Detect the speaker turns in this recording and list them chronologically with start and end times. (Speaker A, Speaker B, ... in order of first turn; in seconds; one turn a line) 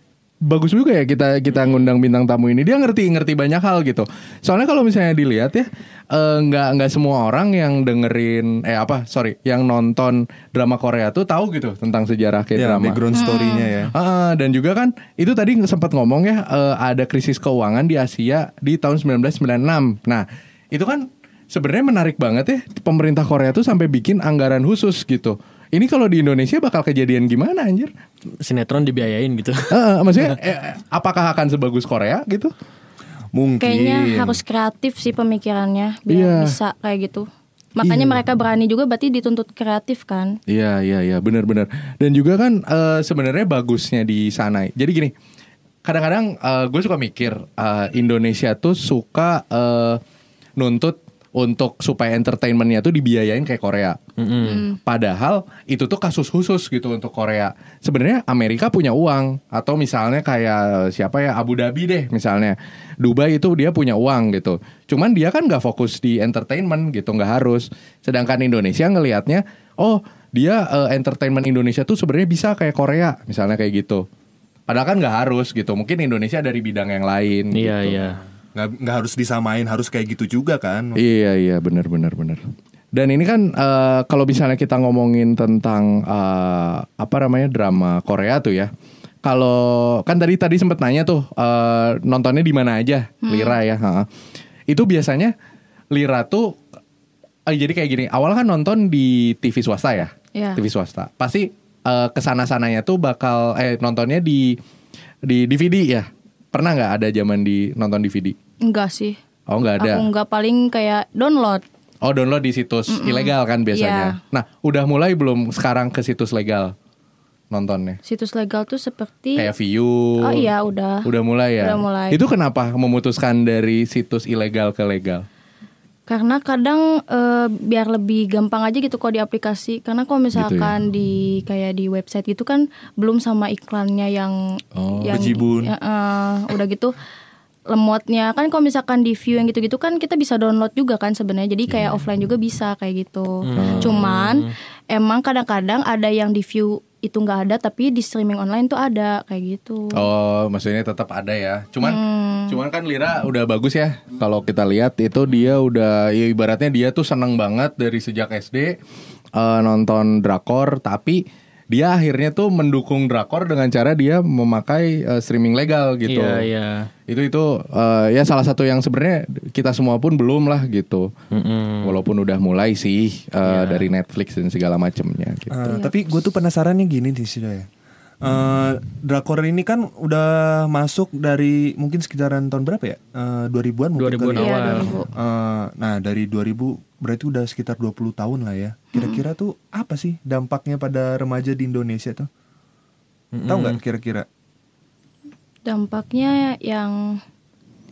Speaker A: 0.5-13.0
Speaker B: 1.5-1.9
Speaker C: 12.5-13.9
Speaker D: 13.1-13.7
Speaker A: 13.9-27.9
Speaker B: 28.4-29.7
Speaker A: 29.7-32.5
Speaker C: 33.3-34.4
Speaker D: 33.6-40.4
Speaker A: 36.1-36.6
Speaker A: 37.8-38.2
Speaker A: 40.5-45.1
Speaker A: 45.8-50.0
Speaker A: 50.6-54.0
Speaker B: 54.2-54.6
Speaker D: 54.4-54.8
Speaker A: 54.9-74.0
Speaker A: 74.7-78.0
Speaker B: 77.5-78.2
Speaker C: 78.5-81.0
Speaker A: 81.0-82.4
Speaker A: 82.9-88.7
Speaker A: 89.2-94.0
Speaker D: 93.3-93.5
Speaker A: 94.7-95.3
Speaker A: 95.9-96.5
Speaker A: 97.5-104.6
Speaker D: 100.3-100.6
Speaker A: 105.3-108.3
Speaker D: 108.6-109.2
Speaker A: 109.5-110.0
Speaker D: 109.8-111.6
Speaker A: 112.0-116.7
Speaker D: 112.9-114.2
Speaker A: 117.5-118.0
Speaker D: 118.0-119.5
Speaker A: 119.3-120.5
Speaker D: 120.2-121.1
Speaker A: 121.0-125.2
Speaker D: 121.6-122.2
Speaker D: 126.1-134.4
Speaker A: 130.3-130.7
Speaker A: 134.8-135.4
Speaker D: 135.0-136.9
Speaker C: 135.1-135.7
Speaker D: 137.7-150.0
Speaker A: 141.7-142.0
Speaker B: 143.4-144.5
Speaker A: 143.6-144.1
Speaker A: 149.9-158.7
Speaker D: 151.8-152.6
Speaker A: 159.3-166.4
Speaker B: 166.1-166.9
Speaker A: 167.1-171.1
Speaker B: 171.3-171.9
Speaker A: 171.8-175.6
Speaker B: 173.4-173.9
Speaker C: 175.5-177.7
Speaker D: 175.6-175.9
Speaker C: 178.2-192.3
Speaker B: 184.0-184.9
Speaker D: 184.4-185.1
Speaker D: 188.9-189.2
Speaker B: 193.3-193.8
Speaker C: 193.5-194.2
Speaker D: 195.6-197.2